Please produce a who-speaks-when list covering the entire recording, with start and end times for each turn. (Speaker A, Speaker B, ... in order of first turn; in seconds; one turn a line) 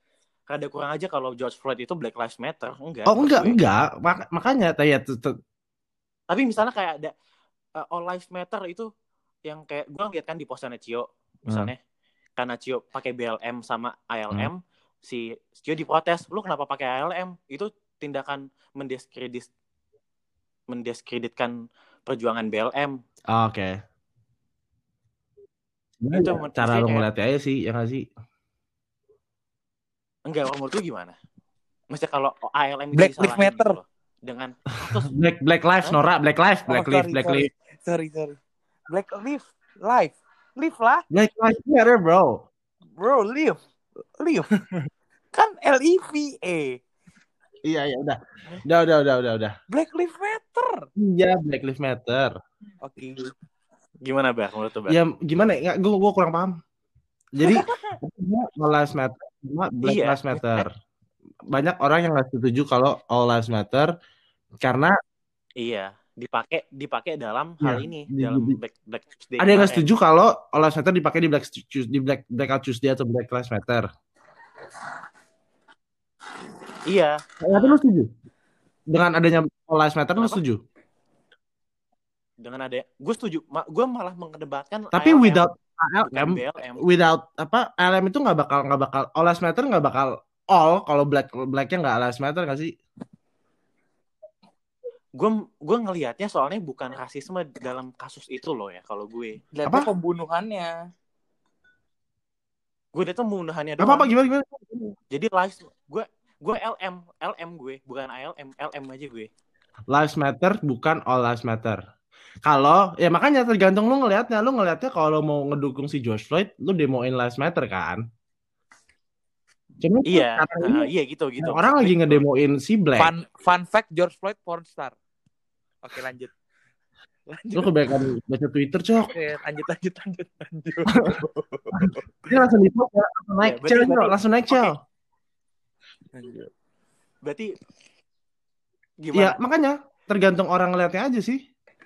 Speaker A: 0.5-3.6
Speaker B: 3.1-5.3
Speaker A: 6.3-7.1
Speaker A: 7.8-8.9
Speaker A: 9.5-11.8
Speaker A: 12.4-19.5
Speaker A: 20.7-21.5
Speaker A: 22.1-23.0
Speaker B: 23.3-23.8
Speaker B: 26.0-28.0
Speaker A: 26.1-27.1
Speaker A: 30.3-31.2
Speaker A: 31.9-35.1
Speaker C: 32.9-33.8
Speaker B: 34.9-37.5
Speaker C: 36.7-38.4
Speaker C: 38.9-41.0
Speaker B: 41.1-42.4
Speaker C: 43.0-43.6
Speaker C: 44.2-44.5
Speaker C: 45.3-46.8
Speaker B: 47.7-49.5
Speaker C: 49.7-50.8
Speaker B: 51.0-52.3
Speaker C: 52.8-53.3
Speaker A: 54.0-55.0
Speaker B: 54.9-56.6
Speaker B: 57.3-60.7
Speaker C: 57.4-58.0
Speaker A: 59.8-60.6
Speaker B: 61.5-63.9
Speaker B: 64.6-64.9
Speaker A: 65.6-69.8
Speaker B: 67.6-68.6
Speaker B: 69.4-73.9
Speaker A: 76.9-77.8
Speaker B: 77.4-78.1
Speaker B: 78.9-80.6
Speaker A: 82.4-85.4
Speaker B: 84.9-92.7
Speaker A: 86.0-86.8
Speaker A: 95.2-99.4
Speaker C: 99.5-100.7
Speaker A: 102.9-104.1
Speaker B: 103.8-105.0
Speaker A: 105.1-109.3
Speaker B: 109.9-111.8
Speaker B: 112.4-118.0
Speaker B: 119.8-120.9
Speaker A: 120.0-122.2
Speaker B: 121.4-123.1
Speaker C: 123.0-124.9
Speaker C: 125.8-126.3
Speaker C: 127.3-127.8
Speaker B: 127.5-129.1
Speaker C: 129.1-132.3
Speaker B: 131.7-134.7
Speaker A: 133.4-134.7
Speaker C: 136.1-136.5
Speaker A: 137.2-137.5
Speaker A: 139.0-139.4
Speaker B: 139.1-141.4